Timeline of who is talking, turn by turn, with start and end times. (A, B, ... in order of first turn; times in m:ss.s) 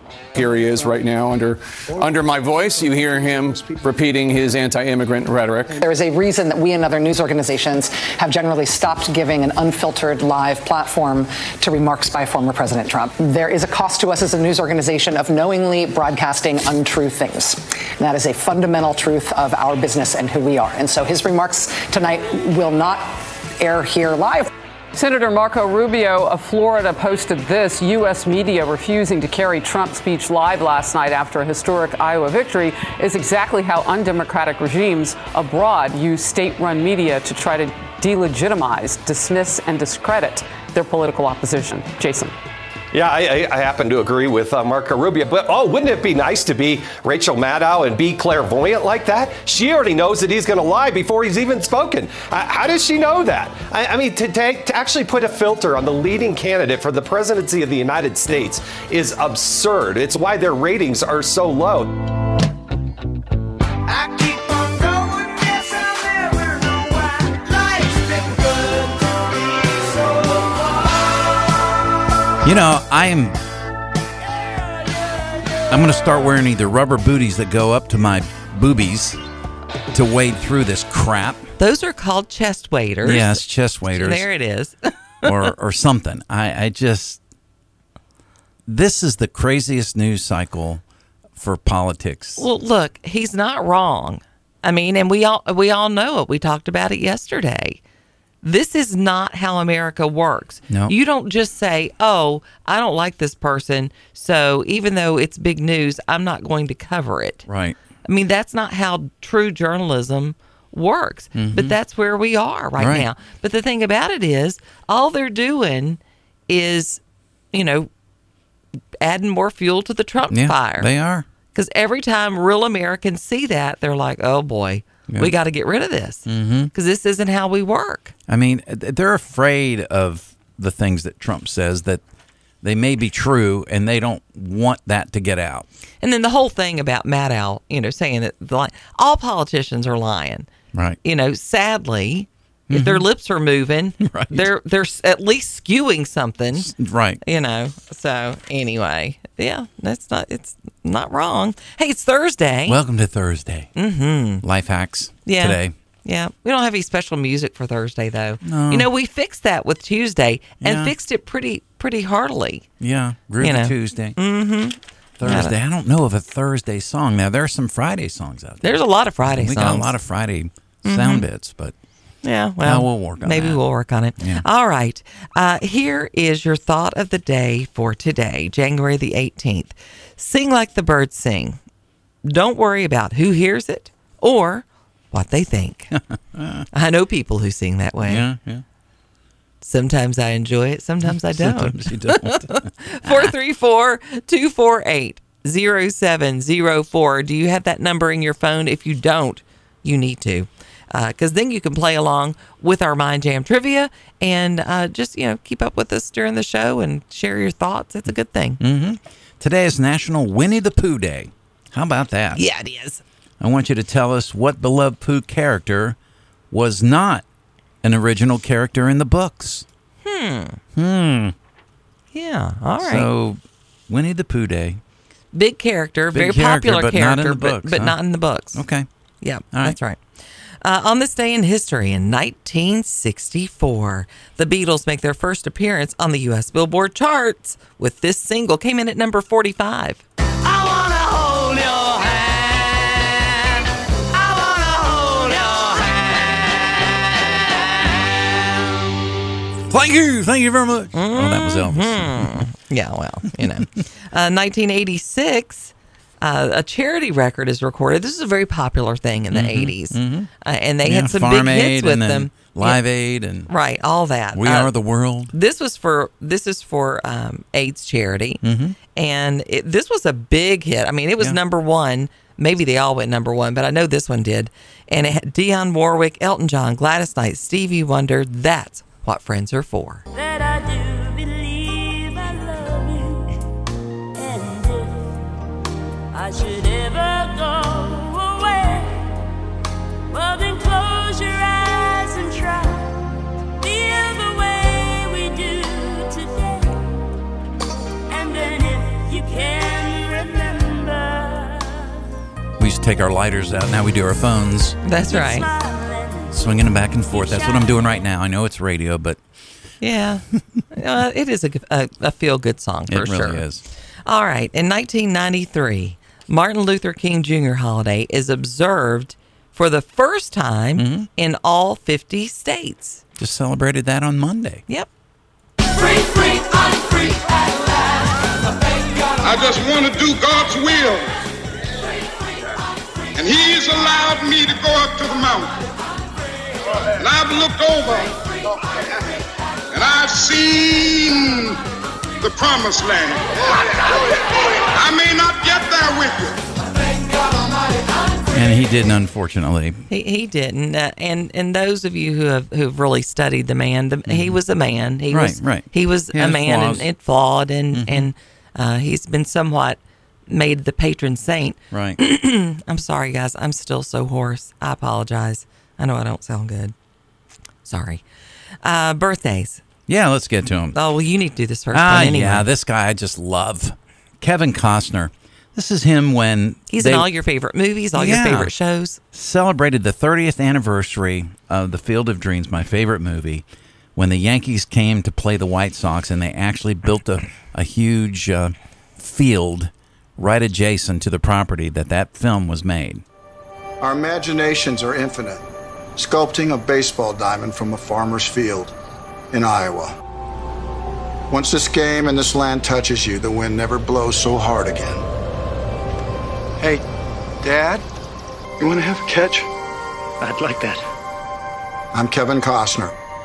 0:00.4-0:05.8 A
0:05.8-0:24.5 B
0:24.9-0:42.4 C
0:42.9-1:02.0 D
1:12.4-1:13.4 E
1:15.7-1:19.2 E
1:19.9-1:21.4 E
1:21.6-1:25.5 F
1:23.0-1:24.3 E
1:25.2-1:27.2 E
1:28.7-1:30.8 E
1:31.4-1:32.4 E
1:32.4-1:37.8 F
1:38.4-1:47.4 F
1:40.7-1:41.0 E
1:47.5-1:47.8 E
1:48.0-1:57.0 F
1:51.4-1:51.8 E
1:52.8-1:53.1 E
1:57.5-1:57.9 F
1:59.0-2:00.9 F
2:00.3-2:01.3 E
2:01.5-2:08.1 F
2:05.1-2:05.3 E
2:06.3-2:06.7 E
2:08.3-2:12.0 E
2:12.6-2:15.7 E
2:16.0-2:20.5 F
2:20.7-2:21.0 E
2:21.0-2:26.7 F
2:22.7-2:23.1 E
2:24.0-2:24.5 E
2:26.5-2:27.2 E
2:27.2-2:32.8 F
2:32.7-2:33.7 E
2:33.8-2:34.4 F
2:34.4-2:35.7 E
2:35.3-2:42.7 F
2:38.4-2:38.9 E
2:40.6-2:40.9 E
2:42.8-2:44.2 E
2:43.4-2:45.5 F
2:45.2-2:48.6 E
2:48.6-2:50.0 F
2:49.3-2:51.8 E
2:50.8-2:51.2 F
2:52.2-3:01.6 F
2:52.6-2:53.7 E
2:54.2-2:54.5 E
3:02.2-3:06.0 F
3:06.4-3:06.6 E
3:06.7-3:08.3 F
3:08.0-3:08.6 E
3:09.6-3:28.6 F
3:11.0-3:13.3 E
3:28.6-3:32.4 E
3:32.4-3:33.0 F
3:33.4-3:36.0 E
3:36.5-3:37.2 E
3:37.8-3:39.6 E
3:40.0-3:40.6 F
3:40.8-3:41.3 E
3:42.1-3:43.1 F
3:42.8-3:44.8 E
3:45.3-3:48.6 F
3:46.1-3:48.0 E
3:48.5-3:48.9 E
3:49.2-3:50.0 F
3:50.6-4:03.6 F
4:04.1-4:08.1 F
4:09.7-4:12.4 E
4:10.9-4:22.8 F
4:19.3-4:20.3 E
4:20.8-4:23.5 E
4:23.5-4:24.7 F
4:24.3-4:25.3 E
4:25.3-4:28.4 F
4:28.4-4:28.8 E
4:29.0-4:40.0 F
4:40.2-4:43.3 G
4:44.2-4:45.1 G
4:46.1-4:49.1 G
4:50.1-4:56.9 G
4:58.1-5:02.0 G
5:02.6-5:04.8 E
5:04.8-5:05.5 F
5:05.1-5:06.6 G
5:06.3-5:09.2 E
5:07.2-5:07.7 G
5:09.8-5:13.5 F
5:12.9-5:13.6 E
5:14.1-5:23.0 F
5:20.8-5:21.1 E
5:23.2-5:24.6 E
5:29.2-5:31.1 H
5:33.2-5:35.5 H
5:37.0-5:38.1 H
5:39.7-5:41.6 H
5:42.2-5:43.6 H
5:44.2-5:46.4 H
5:48.3-5:49.8 E
5:49.9-6:06.7 F
5:54.1-5:54.4 E
5:55.1-5:56.9 E
5:57.7-5:58.1 E
6:01.7-6:02.0 E
6:07.6-6:08.0 F
6:08.6-6:09.6 F
6:09.9-6:10.8 E
6:10.7-6:12.5 F
6:11.7-6:17.1 E
6:16.7-6:19.0 F
6:17.9-6:18.5 E
6:19.1-6:23.4 E
6:24.0-6:33.0 E
6:33.8-6:35.4 I
6:36.0-6:38.7 I
6:39.3-6:39.9 I
6:41.3-6:45.0 I
6:47.4-6:47.8 I
6:48.6-6:49.5 I
6:50.3-6:50.7 I
6:51.9-6:52.9 I